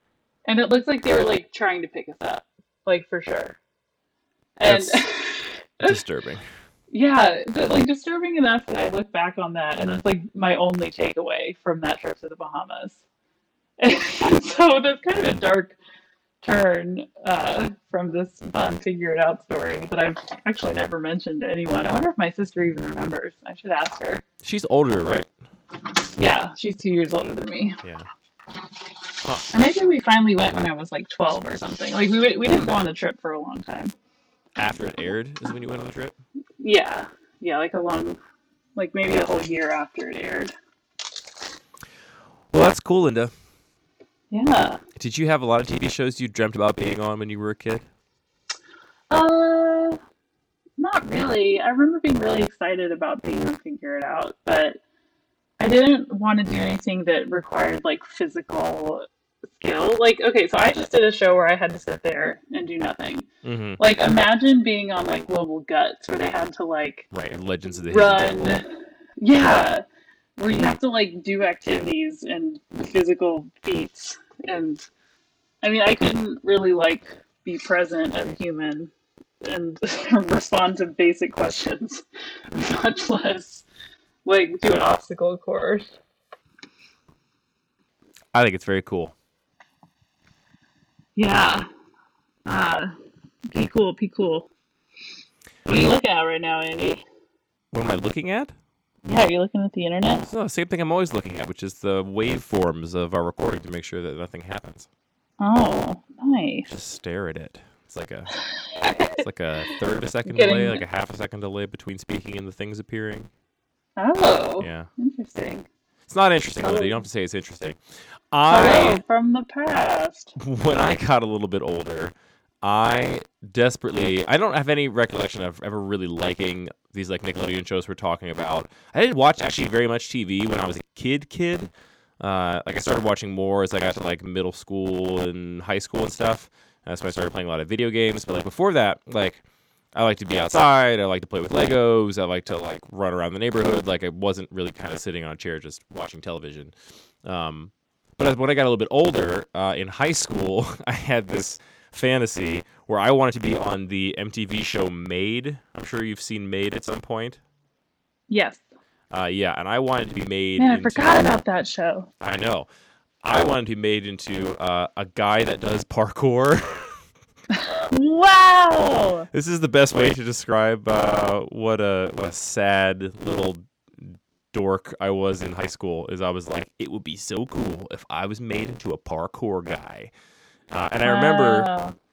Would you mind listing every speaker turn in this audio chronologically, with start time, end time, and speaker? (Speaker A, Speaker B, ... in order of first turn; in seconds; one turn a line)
Speaker A: 0.4-3.6
Speaker A: 4.6-6.0
Speaker B: 4.7-5.0
Speaker B: 5.8-6.4
Speaker A: 6.9-13.0
Speaker A: 13.8-15.8
Speaker A: 16.4-24.2
Speaker B: 24.4-25.3
Speaker A: 26.1-27.8
Speaker B: 27.8-28.1
Speaker A: 29.5-33.9
Speaker B: 34.5-36.1
Speaker A: 36.6-38.2
Speaker A: 38.8-40.5
Speaker B: 42.5-43.3
Speaker A: 44.3-44.8
Speaker B: 45.0-47.9
Speaker A: 49.1-50.0
Speaker A: 50.8-54.8
Speaker A: 55.6-59.0
Speaker A: 59.6-63.2
Speaker B: 63.4-63.8
Speaker A: 63.8-67.1
Speaker B: 67.1-68.5
Speaker A: 67.8-68.7
Speaker A: 69.2-69.8
Speaker A: 70.4-74.8
Speaker A: 75.6-83.7
Speaker A: 84.2-86.0
Speaker B: 88.3-89.1
Speaker A: 91.2-91.7
Speaker A: 92.5-92.9
Speaker A: 93.5-94.5
Speaker A: 95.7-97.0
Speaker B: 97.7-98.5
Speaker A: 99.0-100.2
Speaker B: 100.2-104.9
Speaker A: 105.4-106.7
Speaker B: 106.7-108.3
Speaker A: 108.6-109.2
Speaker B: 109.2-113.3
Speaker A: 110.3-110.8
Speaker A: 114.0-115.7
Speaker B: 114.6-114.9
Speaker B: 116.1-117.8
Speaker A: 116.6-117.0
Speaker B: 118.3-119.0
Speaker A: 118.5-120.3
Speaker B: 120.4-139.4
Speaker B: 139.9-146.7
Speaker B: 147.2-157.4
Speaker A: 158.3-158.6
Speaker B: 159.1-161.3
Speaker A: 160.6-162.1
Speaker B: 162.2-162.7
Speaker B: 163.2-167.0
Speaker A: 167.5-169.3
Speaker B: 169.3-180.1
Speaker B: 180.7-181.7
Speaker A: 181.0-181.9